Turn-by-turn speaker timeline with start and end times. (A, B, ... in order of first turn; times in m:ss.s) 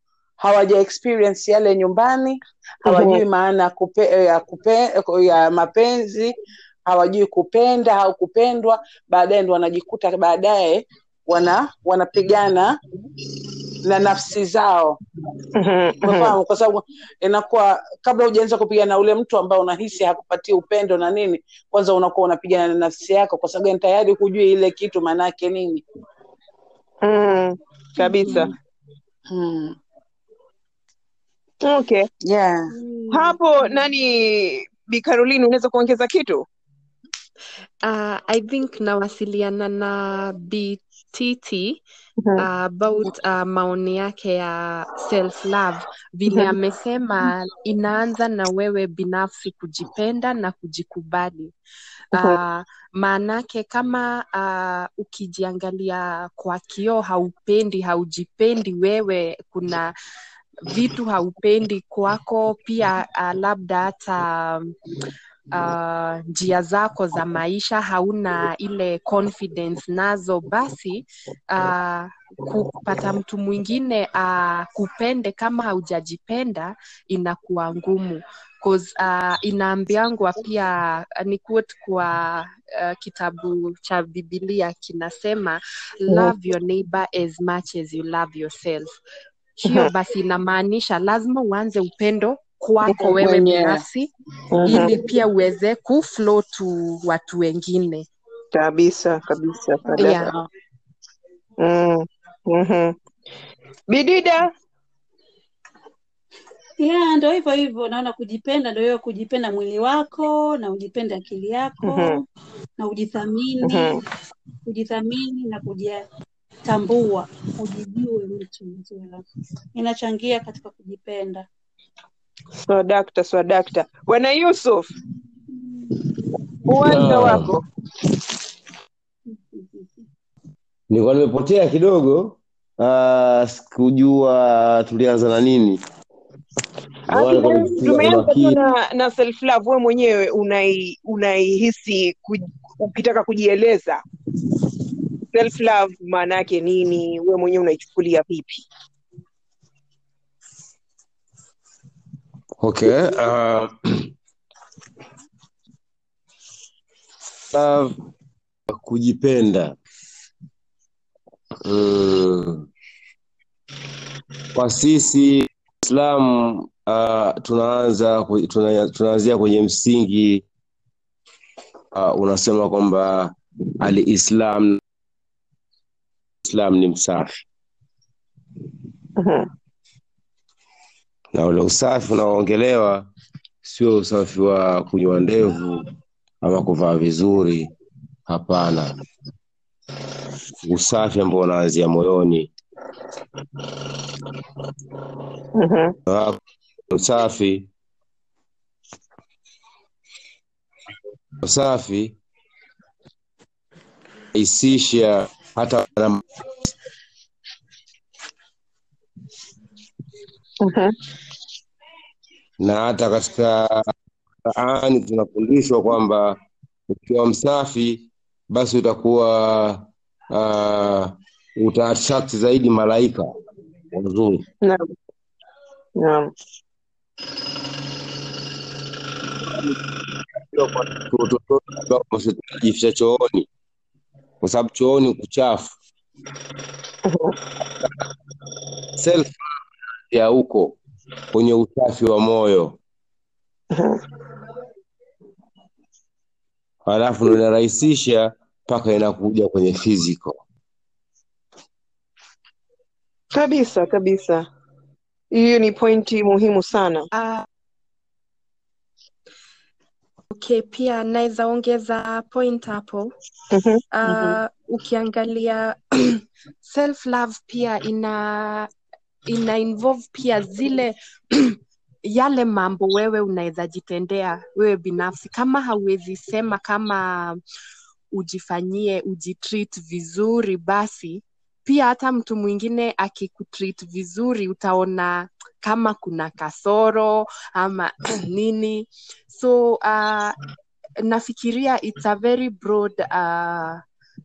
0:00.4-0:12.8 A
0:02.9-0:03.2 B
0:13.8-0:15.0 A
0:15.5-0:16.4 B
0:16.0-0:25.8 A
0:27.0-0:28.5 B
0:29.3-0:29.8 A
0:31.6-0:32.1 B
0:32.2-0:32.7 A
0:33.1-0:36.4 B
0:37.8-0:41.8 C
0:42.4-0:51.5 C
0:52.1-0:59.9 C
1:00.7-1:04.7 C
1:05.5-1:29.0 C
1:29.6-1:34.1 C
1:33.0-1:33.8 A
1:34.5-1:35.0 B
1:34.6-1:38.1 C
1:38.5-1:40.2 B
1:39.9-1:40.5 A
1:40.0-1:40.3 C
1:41.6-1:43.0 B
1:43.9-1:44.5 B
1:46.8-1:52.2 D
1:51.8-1:52.2 B
1:52.8-1:54.0 D
1:53.7-1:54.0 B
1:54.6-1:56.0 D
1:56.6-1:59.2 D
1:59.7-2:01.5 D
2:02.6-2:04.9 B
2:06.6-2:07.5 B
2:06.8-2:07.6 E
2:10.9-2:15.8 E
2:17.1-2:18.6 E
2:17.1-2:24.0 B
2:25.3-2:28.6 B
2:32.6-2:34.1 E
2:37.5-2:38.0 E
2:38.7-2:39.8 E
2:41.6-2:42.6 E
2:44.5-2:50.4 E
2:51.9-2:54.8 E
2:56.4-2:57.3 E
2:59.2-2:59.5 B
3:01.3-3:03.1 E
3:03.6-3:05.9 E
3:06.4-3:07.7 E
3:08.3-3:08.9 E
3:10.6-3:12.5 E
3:15.5-3:16.0 B
3:16.1-3:16.4 E
3:16.9-3:17.7 E
3:21.4-3:22.2 E
3:24.3-3:26.7 E
3:30.6-3:30.9 B
3:32.6-3:33.9 E
3:34.5-3:36.4 E
3:36.9-3:43.3 E
3:43.9-3:44.4 E
3:44.6-3:44.9 B
3:46.0-3:46.3 B
3:49.4-3:49.8 E
3:50.4-3:53.5 E
3:54.4-3:55.8 E
3:57.0-3:57.4 B
3:59.0-3:59.4 E
4:00.1-4:00.8 E
4:01.3-4:02.8 E
4:03.7-4:04.0 B
4:06.9-4:10.4 E
4:13.3-4:14.5 B
4:15.3-4:17.1 B
4:17.1-4:17.4 C
4:20.3-4:23.1 C
4:23.5-4:24.4 B
4:23.9-4:28.7 C
4:29.3-4:37.4 C
4:38.1-4:50.4 C
4:51.0-4:53.8 C